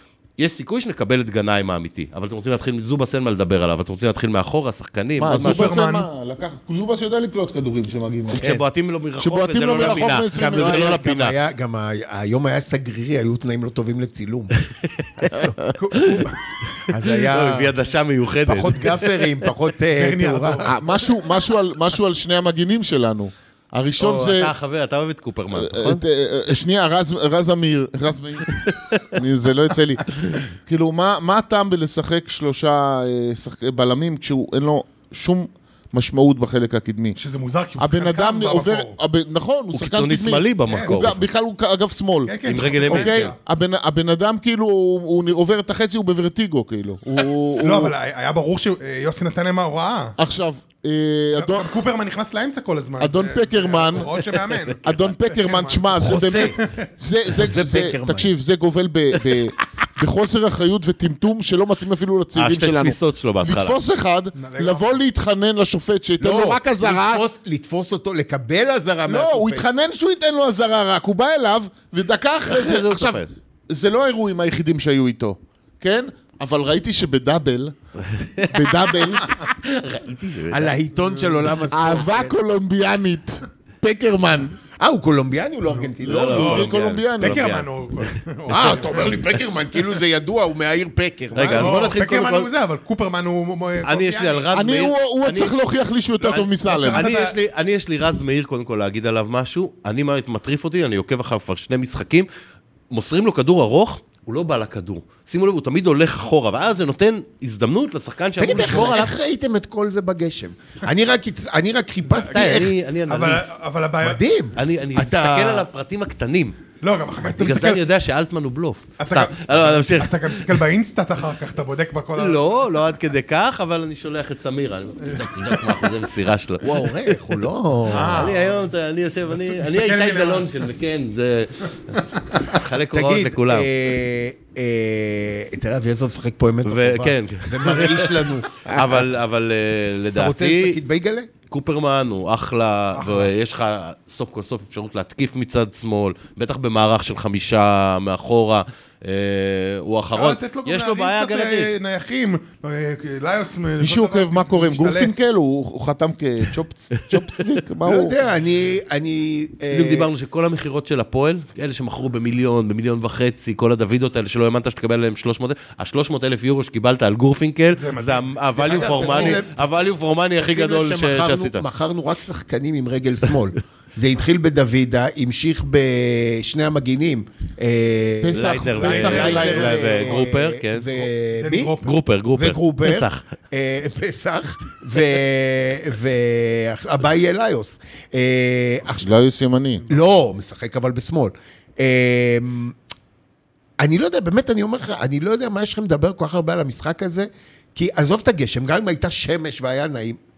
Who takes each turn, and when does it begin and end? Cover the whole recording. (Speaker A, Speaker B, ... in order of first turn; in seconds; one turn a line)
Speaker A: 0.4-5.7
Speaker B: 5.2-8.5
Speaker C: 5.3-6.1
Speaker A: 8.3-11.3
Speaker D: 8.4-8.6
Speaker B: 9.2-11.0
Speaker D: 9.8-15.6
Speaker A: 14.8-15.3
Speaker C: 15.7-16.8
Speaker A: 15.9-16.2
Speaker D: 16.9-17.7
Speaker A: 17.0-19.0
Speaker D: 18.4-20.7
Speaker C: 19.9-20.8
Speaker B: 20.6-24.5
Speaker A: 24.0-26.0
Speaker B: 25.5-37.2
Speaker A: 28.6-29.0
Speaker C: 37.1-39.0
Speaker B: 37.8-42.3
Speaker A: 39.7-41.2
Speaker C: 40.7-41.0
Speaker C: 42.2-43.4
Speaker A: 42.5-43.3
Speaker D: 42.9-43.3
Speaker B: 43.4-47.9
Speaker C: 47.2-50.2
Speaker B: 50.2-51.8
Speaker C: 51.4-56.9
Speaker B: 53.0-54.1
Speaker B: 54.8-67.2
Speaker D: 56.0-56.6
Speaker D: 57.3-58.3
Speaker A: 62.3-63.8
Speaker C: 64.3-65.0
Speaker D: 66.2-69.6
Speaker B: 69.0-77.7
Speaker A: 72.5-73.3
Speaker A: 78.0-80.8
Speaker B: 78.4-79.2
Speaker D: 80.5-82.4
Speaker C: 81.0-81.4
Speaker B: 81.7-84.5
Speaker D: 84.8-86.7
Speaker C: 85.7-89.3
Speaker B: 86.0-87.4
Speaker A: 86.0-88.7
Speaker D: 88.5-91.8
Speaker A: 91.3-92.5
Speaker C: 91.4-94.5
Speaker A: 93.8-95.5
Speaker B: 94.5-97.0
Speaker C: 96.2-97.3
Speaker A: 96.3-102.3
Speaker A: 102.9-109.1
Speaker D: 108.4-112.7
Speaker C: 112.0-114.2
Speaker A: 112.3-113.5
Speaker D: 114.0-115.7
Speaker A: 114.5-116.6
Speaker C: 116.8-117.8
Speaker A: 117.3-120.5
Speaker C: 119.0-122.6
Speaker A: 122.2-127.2
Speaker D: 126.6-128.3
Speaker C: 127.9-128.7
Speaker A: 127.9-133.7
Speaker C: 129.3-130.5
Speaker D: 132.9-138.8
Speaker A: 136.6-140.8
Speaker D: 140.2-141.3
Speaker A: 141.5-151.7
Speaker C: 142.9-143.3
Speaker C: 150.1-155.1
Speaker B: 153.8-158.2
Speaker D: 157.8-160.1
Speaker A: 159.7-171.6
Speaker C: 167.8-169.4
Speaker D: 168.6-181.7
Speaker B: 178.2-180.0
Speaker A: 178.3-180.9
Speaker C: 178.8-180.2
Speaker C: 180.9-182.0
Speaker A: 181.8-183.2
Speaker D: 182.3-189.2
Speaker B: 189.0-189.8
Speaker C: 189.8-190.1
Speaker D: 189.9-192.7
Speaker D: 193.8-200.2